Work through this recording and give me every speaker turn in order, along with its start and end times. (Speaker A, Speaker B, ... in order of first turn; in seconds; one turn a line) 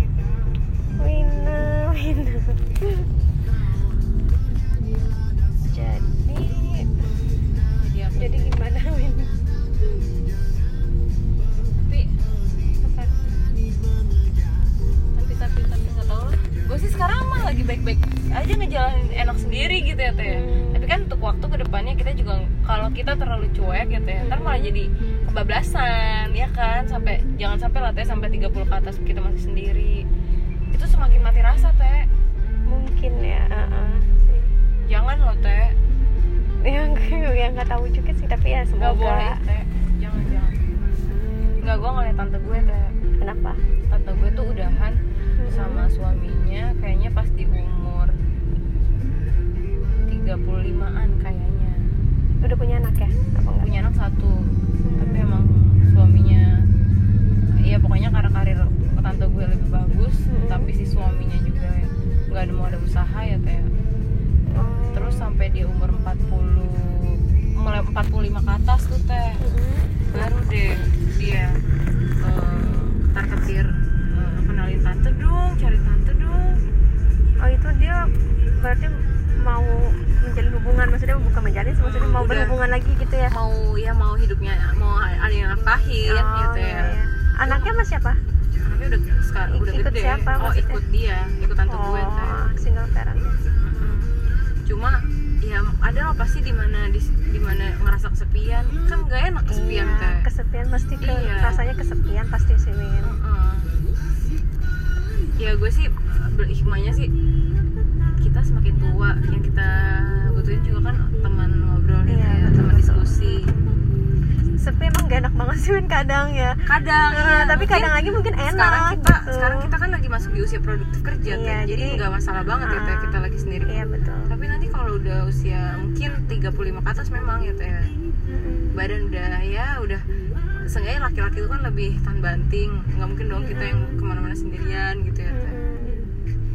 Speaker A: 1.0-3.1
Speaker A: 5.6-7.1
Speaker B: 7.8-8.5
Speaker A: 8.2-9.3
Speaker B: 11.7-12.2
Speaker A: 12.8-13.2
Speaker B: 15.1-30.1
Speaker A: 20.2-20.9
Speaker A: 24.2-24.7
Speaker B: 30.7-32.1
Speaker A: 32.7-34.5
Speaker B: 34.9-35.8
Speaker A: 36.6-39.4
Speaker B: 38.8-40.6
Speaker B: 41.6-42.9
Speaker A: 43.2-43.6
Speaker B: 43.9-48.1
Speaker A: 45.4-45.9
Speaker B: 50.0-51.8
Speaker A: 52.4-53.7
Speaker B: 53.5-56.6
Speaker A: 54.8-55.3
Speaker B: 57.6-63.7
Speaker A: 60.3-60.7
Speaker A: 64.5-65.3
Speaker B: 64.6-69.4
Speaker A: 69.4-70.3
Speaker B: 70.1-71.6
Speaker B: 72.2-76.6
Speaker A: 77.4-83.3
Speaker B: 81.8-82.6
Speaker B: 83.3-87.7
Speaker A: 86.0-88.2
Speaker B: 88.6-92.4
Speaker A: 89.5-90.8
Speaker A: 91.7-93.5
Speaker B: 93.6-94.1
Speaker B: 94.7-100.2
Speaker A: 99.5-103.2
Speaker B: 101.0-101.6
Speaker B: 103.0-103.7
Speaker B: 105.4-107.1
Speaker B: 108.2-113.5
Speaker A: 112.1-113.7
Speaker A: 114.6-116.6
Speaker B: 116.7-127.9
Speaker A: 117.1-119.7
Speaker A: 121.3-122.0
Speaker A: 122.6-124.3
Speaker A: 128.3-128.8
Speaker B: 128.7-130.0
Speaker B: 130.7-135.6
Speaker A: 133.4-133.9
Speaker A: 135.3-136.0